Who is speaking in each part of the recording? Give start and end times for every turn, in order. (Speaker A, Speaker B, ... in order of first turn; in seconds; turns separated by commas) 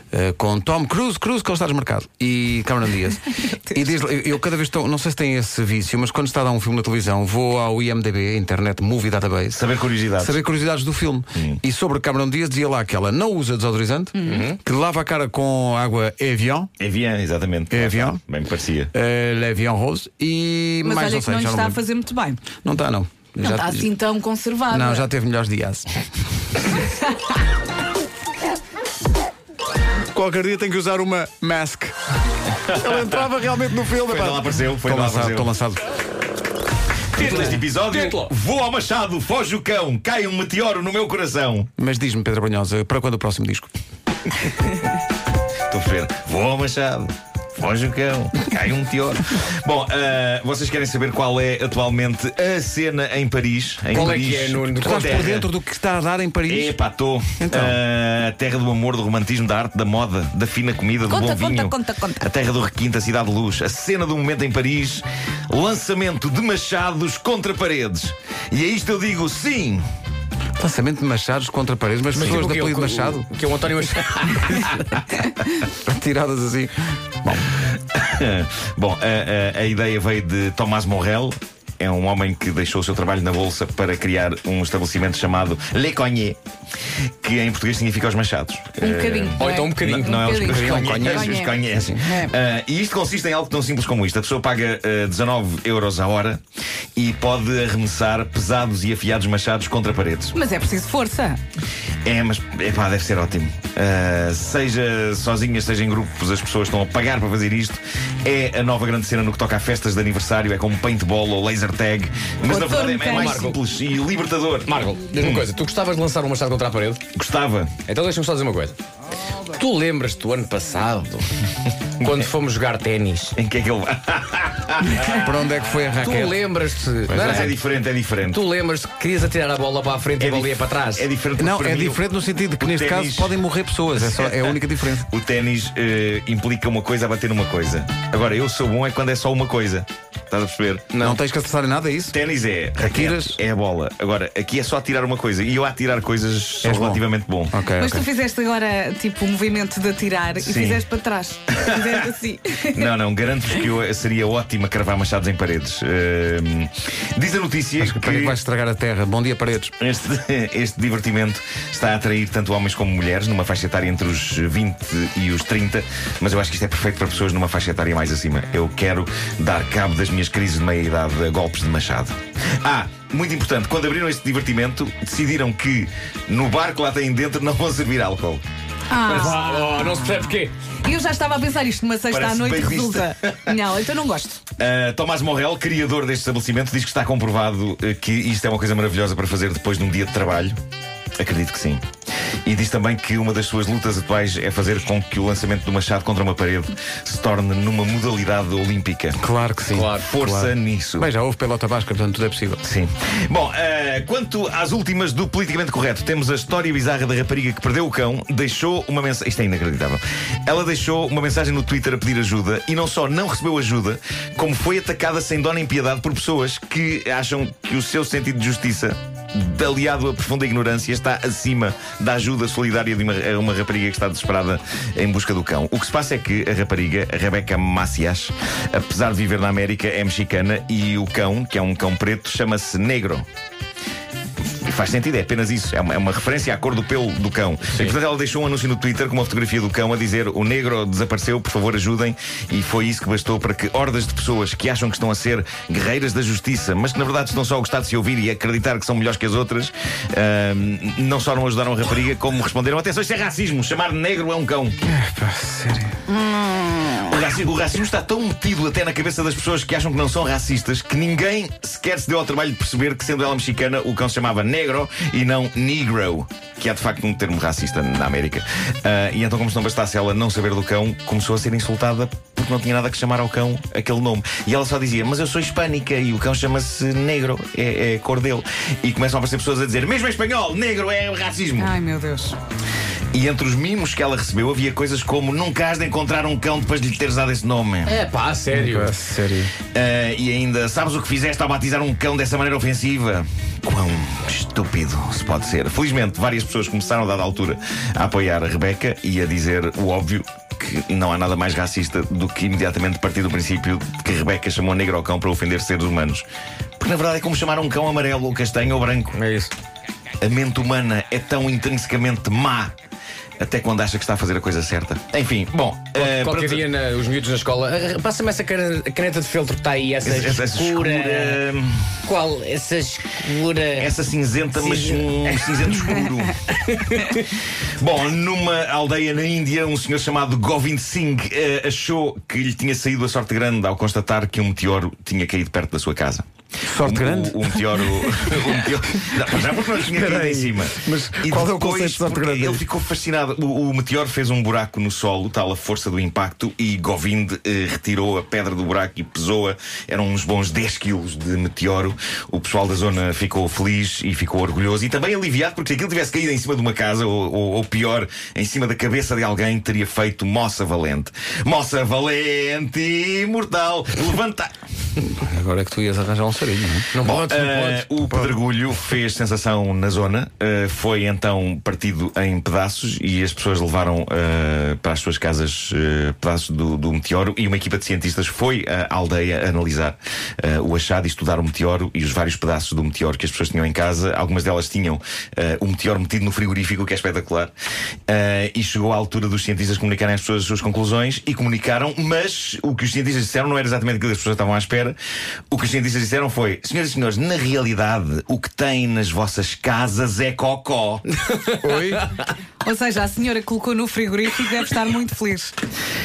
Speaker A: 0.1-9.6, Speaker B: 9.5-10.4, Speaker A: 10.2-16.7, Speaker C: 14.2-14.4, Speaker D: 14.2-14.6, Speaker B: 16.8-18.9, Speaker A: 17.7-18.2, Speaker A: 18.9-21.8, Speaker C: 20.8-22.5, Speaker A: 22.6-23.9, Speaker C: 23.4-25.0, Speaker A: 24.7-25.9, Speaker A: 30.1-31.9, Speaker A: 32.6-35.8, Speaker B: 34.0-35.5, Speaker D: 37.1-38.3, Speaker B: 37.2-41.7, Speaker A: 41.8-43.7, Speaker B: 45.7-55.5, Speaker D: 53.9-55.3, Speaker A: 54.8-56.7, Speaker B: 56.5-69.8, Speaker A: 57.4-57.8, Speaker C: 61.0-62.2, Speaker A: 70.6-73.3, Speaker D: 72.1-74.8, Speaker A: 75.8-77.5, Speaker B: 77.5-86.4, Speaker B: 87.2-96.4, Speaker C: 88.8-92.3, Speaker D: 89.4-90.2, Speaker A: 90.3-92.0, Speaker B: 97.0-100.3, Speaker C: 100.3-101.4, Speaker B: 102.0-115.5, Speaker C: 112.4-113.5, Speaker D: 113.0-113.6, Speaker D: 114.7-117.0, Speaker B: 117.1-117.8, Speaker D: 117.8-118.8, Speaker D: 119.5-121.3, Speaker D: 122.0-123.3, Speaker B: 123.3-125.2, Speaker A: 125.1-126.4, Speaker D: 126.0-127.6, Speaker A: 127.1-127.5, Speaker B: 127.1-128.4, Speaker D: 128.2-131.1, Speaker B: 130.2-132.0, Speaker A: 131.3-135.1, Speaker B: 132.6-133.3, Speaker B: 133.9-141.1, Speaker D: 140.9-141.2, Speaker A: 141.0-142.2, Speaker B: 142.1-147.6, Speaker A: 142.8-143.4, Speaker A: 146.6-148.1, Speaker C: 147.8-152.9, Speaker B: 150.4-150.8, Speaker B: 151.5-152.1, Speaker B: 152.7-158.4, Speaker A: 157.8-159.7, Speaker B: 159.8-178.4, Speaker C: 178.9-184.4, Speaker D: 178.9-180.5, Speaker B: 182.1-183.6, Speaker B: 184.6-190.5, Speaker B: 191.2-191.8, Speaker B: 192.4-199.2, Speaker A: 199.2-202.6, Speaker D: 199.7-200.1, Speaker B: 199.9-201.1, Speaker B: 202.6-233.2, Speaker B: 234.5-254.8, Speaker D: 237.7-237.9, Speaker A: 254.8-256.0, Speaker B: 256.9-281.8, Speaker C: 281.6-282.4, Speaker B: 283.1-288.0, Speaker D: 287.9-288.9, Speaker A: 288.5-289.5, Speaker B: 289.7-306.2, Speaker B: 306.8-309.2, Speaker D: 309.1-309.5, Speaker B: 310.2-312.7, Speaker B: 313.4-316.6, Speaker D: 315.9-321.4, Speaker B: 320.0-322.0, Speaker D: 322.0-323.9, Speaker B: 323.8-327.3, Speaker D: 324.5-325.9, Speaker D: 326.8-327.1, Speaker B: 327.8-336.2, Speaker A: 336.6-338.3, Speaker B: 336.8-364.5, Speaker A: 339.1-342.6, Speaker A: 365.0-366.9, Speaker D: 366.9-367.9, Speaker B: 367.0-387.5, Speaker A: 368.1-368.4, Speaker B: 388.1-394.9, Speaker B: 395.5-401.2, Speaker A: 401.6-402.1, Speaker C: 402.6-405.5